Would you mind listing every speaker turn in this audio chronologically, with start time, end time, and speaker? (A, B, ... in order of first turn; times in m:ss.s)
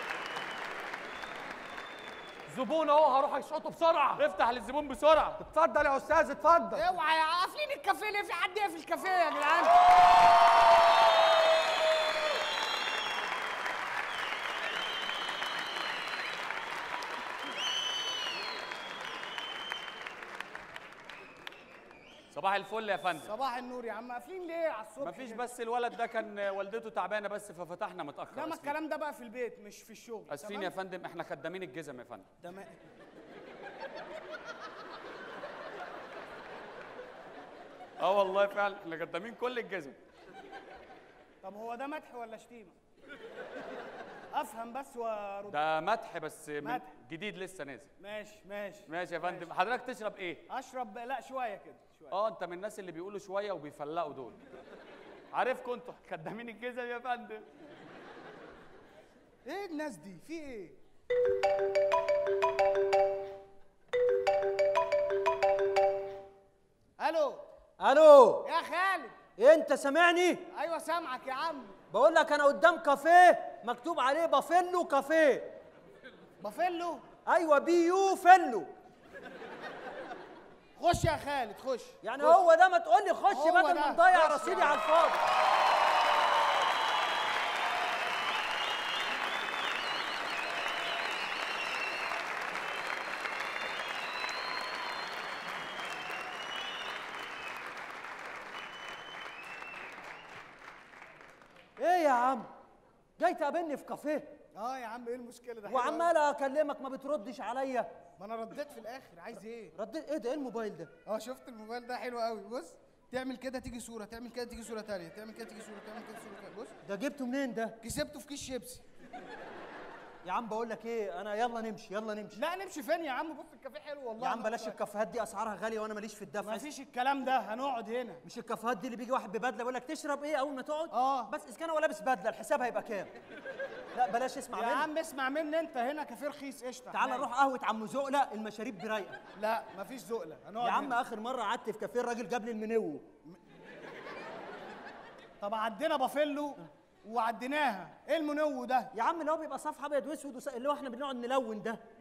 0:02.5-0:04.2 A
0:04.2-0:05.4 B
0:05.4-0:06.8 A
0:06.7-0:09.8 C
0:22.3-0:23.3 B
0:23.2-0:25.4 C
0:25.0-0:28.8 B
0:28.3-0:30.7 C
0:30.3-0:32.3 B
0:32.4-0:32.8 C
0:38.0-0:40.0 B
0:41.4-0:42.7 C
0:44.3-0:45.6 C
0:45.5-0:47.9 B
0:46.6-0:46.9 C
0:48.0-0:49.5 C
0:48.9-0:50.4 B
0:50.5-0:52.2 C
0:52.1-0:54.4 B
0:55.3-0:57.4 B
0:59.4-1:00.8 C
1:07.0-1:07.4 C
1:07.8-1:08.5 D
1:08.4-1:09.2 C
1:09.4-1:10.4 D
1:10.5-1:11.8 C
1:11.9-1:15.5 D
1:16.4-1:17.0 C
1:17.2-1:18.7 D
1:20.8-1:22.4 C
1:22.0-1:25.2 D
1:23.3-1:24.8 C
1:41.8-1:42.5 D
1:43.2-1:44.4 D
1:44.5-1:46.1 C
1:45.6-1:48.0 D
1:48.2-1:49.7 C
1:49.7-1:50.9 D
1:51.0-1:56.8 C
1:56.8-1:57.8 D
1:57.8-1:58.8 C
2:00.2-2:02.4 D
2:02.3-2:04.8 C
2:04.2-2:06.7 D
2:06.4-2:08.2 C
2:08.2-2:13.1 D
2:10.9-2:11.3 C
2:13.9-2:14.9 D
2:14.5-2:17.3 C
2:16.9-2:19.2 D
2:19.3-2:21.0 C
2:20.6-2:23.0 D
2:25.4-2:28.9 C
2:28.9-2:31.8 D